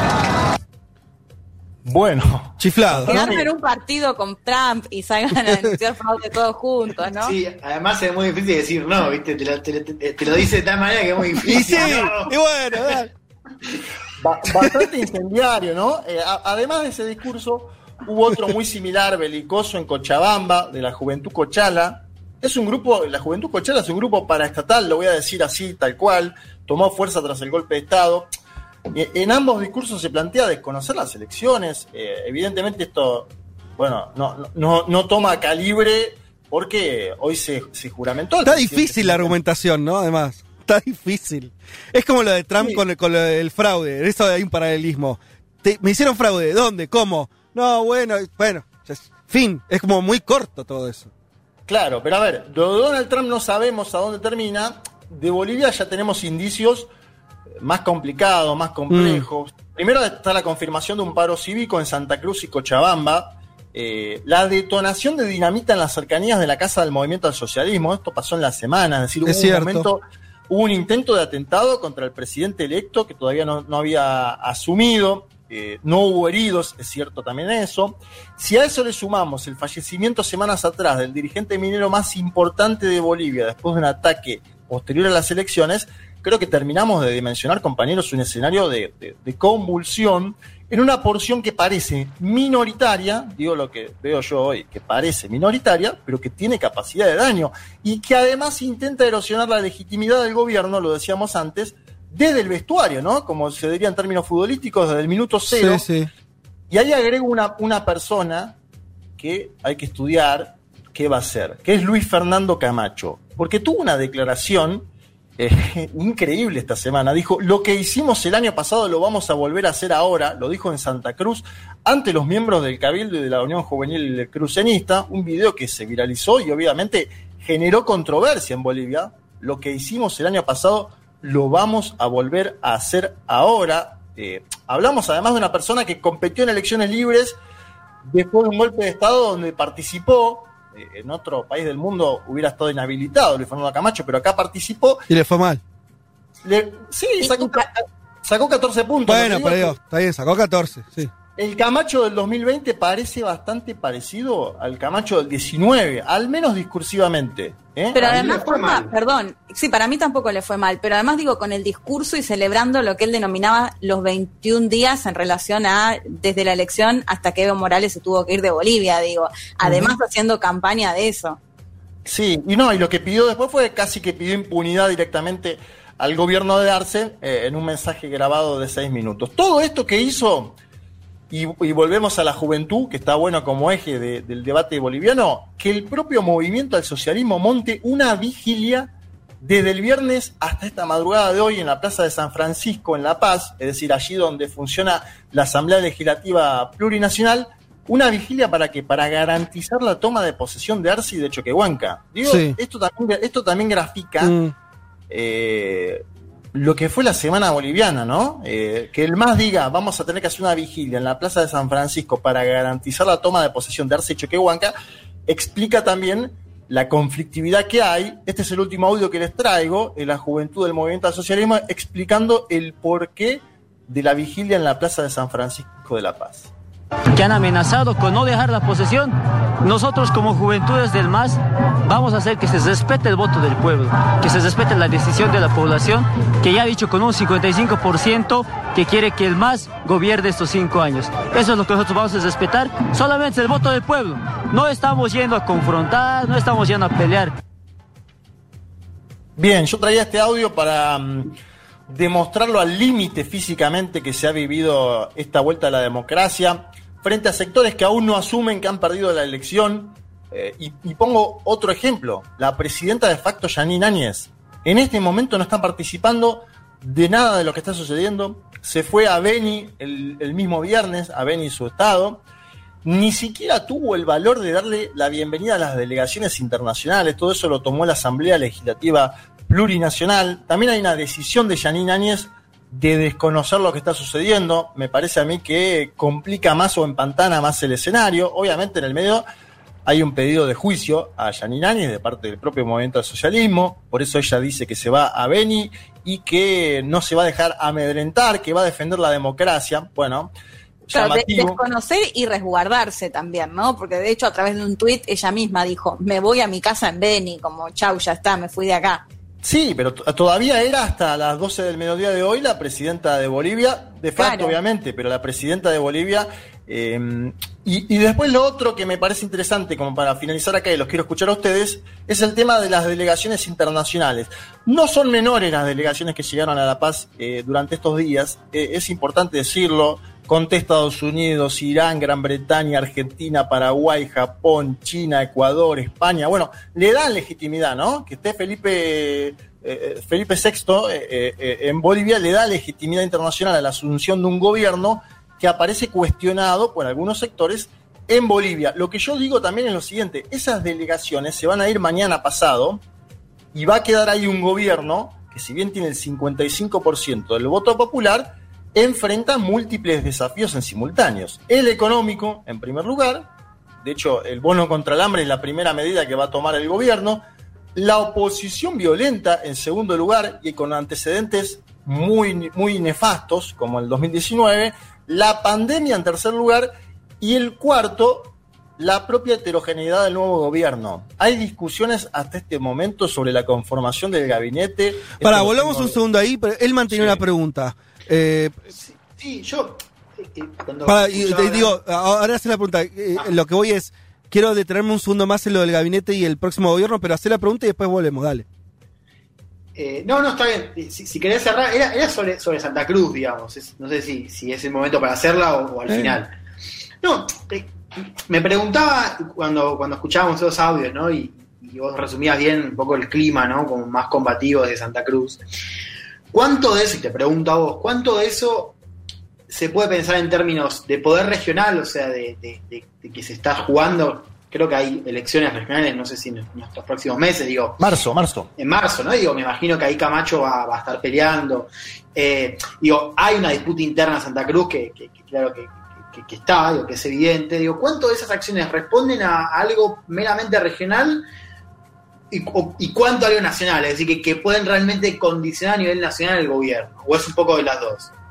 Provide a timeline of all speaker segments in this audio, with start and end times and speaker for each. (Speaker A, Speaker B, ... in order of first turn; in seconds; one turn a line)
Speaker A: 1.9-3.5
Speaker B: 2.6-3.4
Speaker C: 3.1-7.3
Speaker D: 7.2-12.3
Speaker B: 11.4-13.1
Speaker A: 14.2-28.3
Speaker A: 28.9-39.4
Speaker B: 38.5-51.1
Speaker A: 42.6-42.8
Speaker A: 51.7-56.9
Speaker A: 57.6-105.9
Speaker B: 58.9-59.2
Speaker B: 69.2-69.9
Speaker B: 105.5-106.1
Speaker A: 106.7-108.6
Speaker A: 109.2-137.4
Speaker A: 138.0-145.1
Speaker B: 145.1-145.6
Speaker A: 146.4-149.8
Speaker C: 147.2-147.7
Speaker B: 149.1-151.1
Speaker A: 151.4-158.1
Speaker C: 157.9-171.4
Speaker D: 158.0-158.9
Speaker A: 169.6-169.9
Speaker A: 172.1-180.6
Speaker A: 181.3-204.4
Speaker B: 202.2-202.6
Speaker B: 204.2-204.6
Speaker A: 205.1-206.0
Speaker A: 206.5-214.7
Speaker A: 215.3-226.5
Speaker E: 227.1-247.3
Speaker A: 249.4-251.3
Speaker A: 251.9-272.2
Speaker A: 272.8-289.2
Speaker A: 289.9-300.3
Speaker A: 300.9-301.6
Speaker C: 300.9-309.1
Speaker A: 309.4-352.8
Speaker C: 314.2-314.6
Speaker A: 353.5-363.3
Speaker A: 363.8-367.2
Speaker A: 367.8-386.0
Speaker B: 385.2-388.7
Speaker A: 386.9-387.2
Speaker D: 388.8-391.8
Speaker B: 390.9-398.4
Speaker D: 399.8-406.3
Speaker B: 405.9-406.2
Speaker D: 407.0-407.7
Speaker D: 408.3-415.4
Speaker D: 416.3-418.8
Speaker D: 419.5-427.8
Speaker A: 427.8-428.5
Speaker D: 428.6-441.2
Speaker D: 442.3-448.1